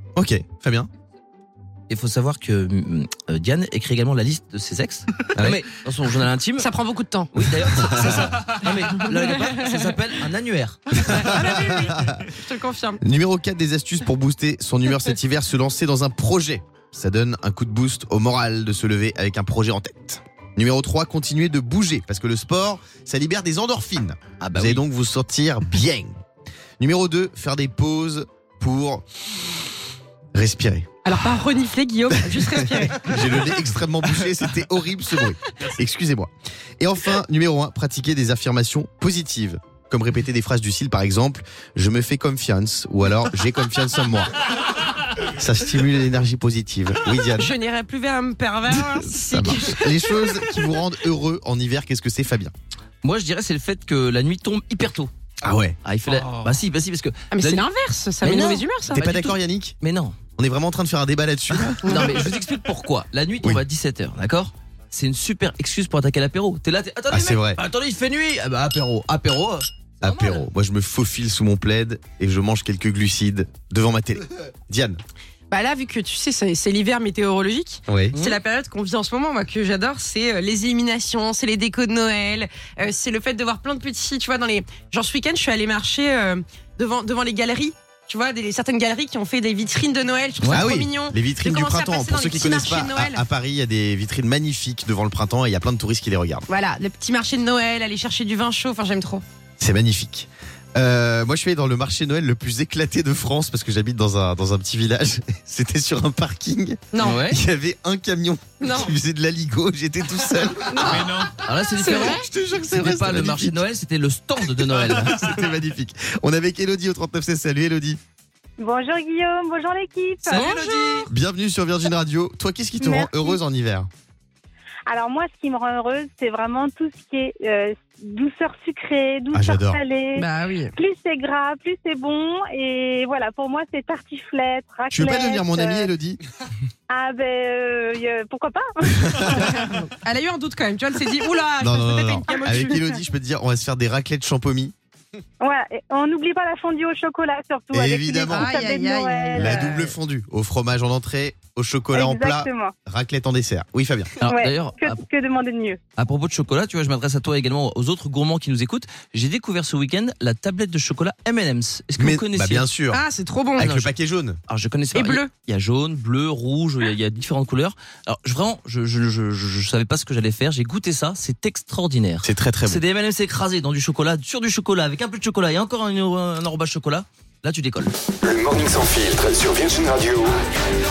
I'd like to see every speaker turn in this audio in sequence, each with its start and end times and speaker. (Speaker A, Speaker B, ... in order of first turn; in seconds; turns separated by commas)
Speaker A: 0.2-0.9, Speaker B: 1.9-6.7, Speaker A: 5.3-5.6, Speaker C: 6.6-7.4, Speaker B: 7.3-10.8, Speaker A: 7.8-8.4, Speaker C: 9.1-9.9, Speaker C: 10.9-13.0, Speaker A: 11.1-12.3, Speaker A: 13.0-26.2, Speaker B: 24.4-24.8, Speaker A: 26.8-29.0, Speaker A: 30.3-30.9, Speaker C: 31.1-33.2, Speaker A: 32.2-44.4, Speaker A: 45.2-47.5, Speaker C: 47.3-50.3, Speaker A: 48.7-52.5, Speaker B: 53.0-55.1, Speaker A: 55.4-55.8, Speaker B: 55.8-57.7, Speaker C: 57.3-59.0, Speaker B: 58.2-60.2, Speaker A: 58.9-59.8, Speaker A: 60.4-62.1, Speaker B: 61.6-70.5, Speaker A: 67.1-67.6, Speaker A: 70.0-75.0, Speaker C: 75.5-93.2, Speaker A: 77.9-78.2, Speaker B: 78.1-78.4, Speaker B: 90.4-90.7, Speaker A: 90.5-96.5, Speaker C: 96.5-99.2, Speaker A: 99.6-111.2, Speaker C: 106.9-107.2, Speaker B: 107.0-107.4, Speaker C: 108.6-108.9, Speaker C: 110.7-112.2, Speaker B: 111.3-115.3, Speaker A: 112.0-113.6, Speaker A: 114.6-118.0, Speaker D: 118.6-120.5, Speaker B: 120.3-121.1, Speaker C: 120.3-121.0, Speaker A: 121.1-123.9, Speaker D: 122.8-123.4, Speaker D: 124.9-135.9, Speaker A: 129.3-129.8, Speaker C: 130.2-130.7, Speaker A: 134.9-136.2, Speaker D: 136.9-139.6, Speaker C: 139.5-142.8, Speaker A: 141.6-144.7, Speaker D: 142.5-142.8, Speaker D: 145.4-149.7, Speaker A: 147.7-148.5, Speaker C: 148.3-150.0, Speaker A: 149.3-154.1, Speaker D: 151.9-152.7, Speaker B: 154.2-155.0, Speaker D: 154.2-155.8, Speaker B: 156.0-162.7, Speaker A: 162.0-163.0, Speaker C: 162.9-163.7, Speaker A: 163.6-164.4, Speaker B: 163.6-163.9, Speaker B: 164.5-177.9, Speaker C: 164.9-165.3, Speaker A: 172.2-172.8, Speaker E: 178.2-180.4